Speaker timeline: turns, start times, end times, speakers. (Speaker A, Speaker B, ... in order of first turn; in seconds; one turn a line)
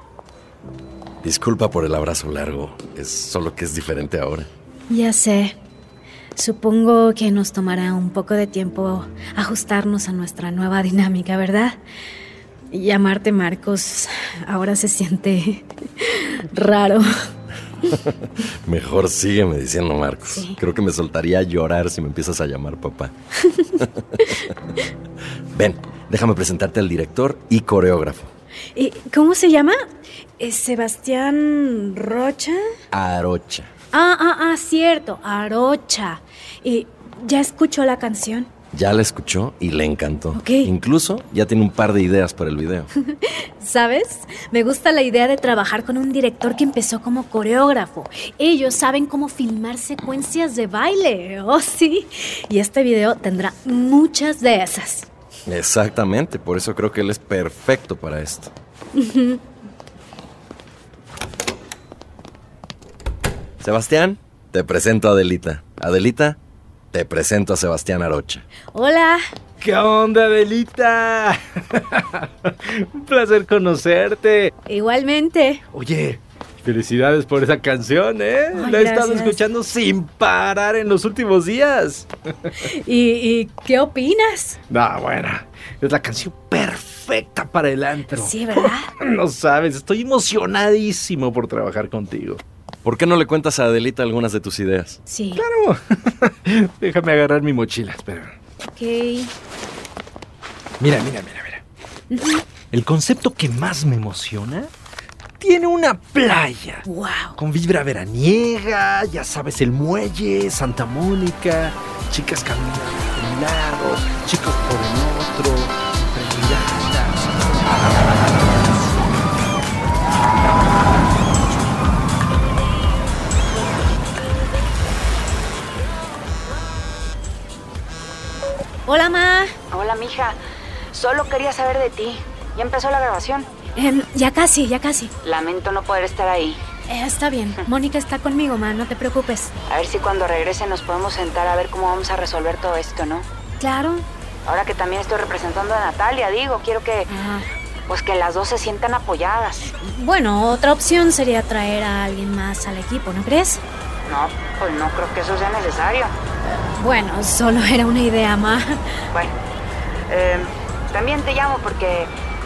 Speaker A: 1.2-4.5
Speaker B: 4.9-5.6
Speaker B: 6.3-11.8
Speaker B: 12.7-17.1
Speaker A: 18.6-23.1
Speaker B: 20.3-20.6
Speaker B: 23.4-23.7
Speaker A: 25.5-28.3
Speaker B: 28.7-29.8
Speaker B: 30.4-32.7
Speaker A: 32.9-33.7
Speaker B: 33.9-38.5
Speaker A: 38.7-42.9
Speaker B: 40.3-40.7
Speaker B: 43.1-55.1
Speaker A: 55.5-58.5
Speaker B: 59.0-59.4
Speaker A: 63.6-66.4
Speaker A: 66.9-68.4
Speaker B: 68.7-69.2
Speaker C: 69.6-74.5
Speaker B: 74.7-75.6
Speaker C: 75.7-82.1
Speaker B: 78.5-79.4
Speaker B: 82.7-84.6
Speaker C: 84.7-92.4
Speaker B: 88.1-88.9
Speaker A: 92.8-95.0
Speaker B: 95.1-95.4
Speaker C: 95.3-98.3
Speaker B: 98.6-99.3
Speaker C: 100.8-101.6
Speaker B: 102.1-102.4
Speaker C: 102.7-104.7
Speaker C: 105.4-106.8
Speaker B: 106.8-107.4
Speaker C: 107.4-119.4
Speaker B: 128.8-129.6
Speaker D: 129.7-130.4
Speaker D: 130.9-133.5
Speaker B: 133.8-135.1
Speaker D: 135.2-136.6
Speaker B: 136.9-139.5
Speaker D: 139.7-143.2
Speaker B: 143.6-144.1
Speaker D: 144.4-147.1
Speaker B: 147.1-147.5
Speaker D: 147.9-149.7
Speaker B: 149.8-153.6
Speaker D: 154.1-156.1
Speaker B: 156.4-158.8
Speaker D: 160.1-162.1